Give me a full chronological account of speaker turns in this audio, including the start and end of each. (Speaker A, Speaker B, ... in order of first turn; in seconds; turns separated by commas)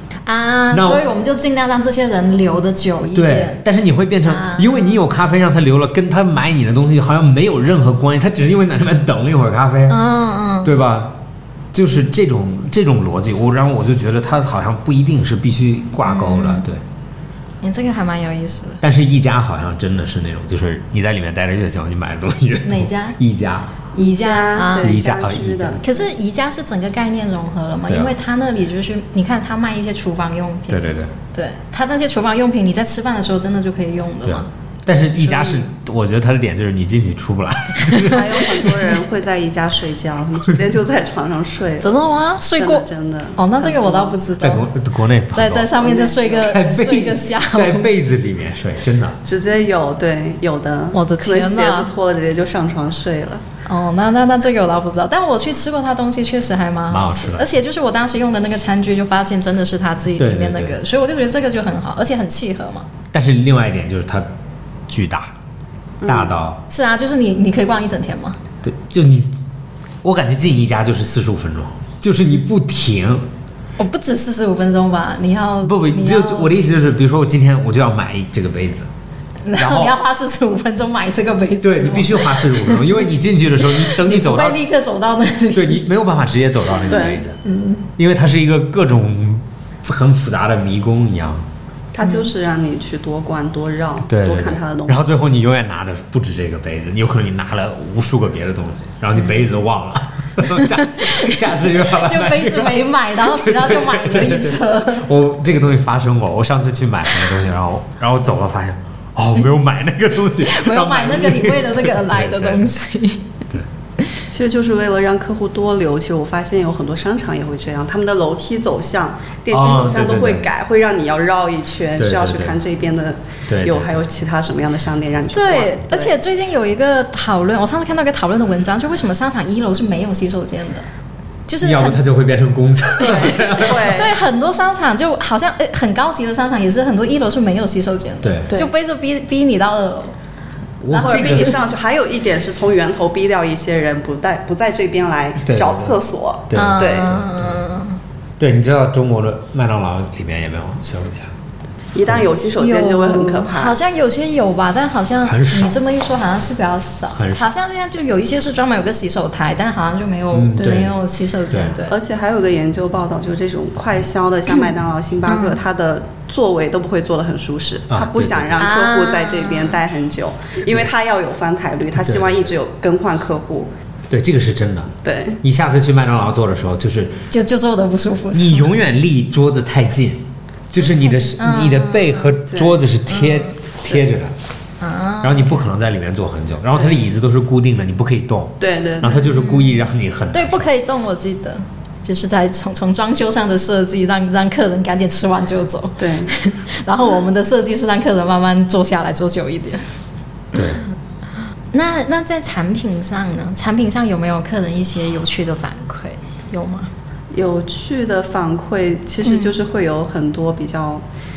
Speaker A: 0.2-3.6, Speaker B: 0.7-1.0, Speaker B: 3.1-10.0, Speaker A: 4.2-4.9, Speaker A: 9.9-10.7, Speaker B: 10.6-11.2, Speaker B: 11.7-16.8, Speaker A: 16.0-16.6, Speaker A: 17.6-18.8, Speaker B: 18.8-23.8, Speaker A: 22.6-23.2, Speaker A: 23.9-25.0, Speaker C: 24.0-26.0, Speaker B: 24.8-25.8, Speaker A: 25.8-34.5, Speaker B: 27.9-28.1, Speaker B: 30.7-31.1, Speaker B: 34.2-38.9, Speaker A: 35.2-35.6, Speaker C: 38.0-41.9, Speaker A: 41.8-42.8, Speaker C: 42.5-44.2, Speaker A: 43.4-44.7, Speaker B: 44.4-45.7, Speaker A: 45.3-47.9, Speaker C: 45.8-46.6, Speaker B: 46.4-49.2, Speaker C: 49.2-53.4, Speaker A: 50.9-51.9, Speaker A: 53.6-62.9, Speaker B: 56.9-57.5, Speaker B: 60.2-60.8, Speaker B: 63.1-64.3, Speaker B: 64.9-65.3, Speaker C: 66.0-66.3, Speaker B: 66.0-66.6, Speaker A: 66.7-68.4, Speaker B: 68.6-69.3, Speaker B: 70.0-73.2, Speaker A: 73.8-76.5, Speaker B: 75.6-78.9, Speaker A: 79.4-83.1, Speaker B: 79.5-80.0, Speaker B: 81.6-84.6, Speaker A: 83.7-85.8, Speaker B: 85.5-87.4, Speaker C: 86.9-87.2, Speaker A: 87.0-87.8, Speaker B: 88.0-91.4, Speaker C: 91.9-95.2, Speaker B: 94.1-112.7, Speaker A: 100.5-105.1, Speaker A: 110.4-113.3, Speaker C: 114.3-126.1, Speaker B: 119.5-120.5, Speaker B: 122.0-122.6, Speaker B: 123.5-124.0, Speaker A: 125.3-130.9, Speaker A: 131.5-132.0, Speaker B: 131.6-133.9, Speaker C: 133.0-134.2, Speaker A: 133.5-140.2, Speaker B: 138.2-138.5, Speaker B: 140.8-141.6, Speaker A: 140.9-141.5, Speaker C: 140.9-147.1, Speaker B: 145.4-147.5, Speaker A: 146.5-148.0, Speaker B: 148.4-151.3, Speaker C: 151.9-153.8, Speaker A: 152.6-161.9, Speaker B: 155.2-155.7, Speaker B: 157.1-157.5, Speaker B: 160.3-160.9, Speaker B: 161.5-161.8, Speaker C: 161.9-173.7, Speaker A: 165.3-165.6, Speaker B: 167.9-168.7, Speaker A: 168.6-169.7, Speaker B: 171.9-172.5, Speaker B: 174.1-177.2, Speaker C: 175.0-175.4, Speaker A: 177.3-178.7, Speaker B: 178.3-184.3, Speaker A: 180.8-182.3, Speaker C: 182.5-182.8, Speaker A: 183.1-183.5, Speaker A: 184.8-185.6, Speaker B: 185.2-190.7, Speaker C: 188.6-189.2, Speaker A: 189.1-199.8, Speaker C: 196.0-196.3, Speaker B: 200.5-200.8, Speaker A: 201.7-206.9, Speaker C: 207.3-211.0, Speaker A: 209.2-209.5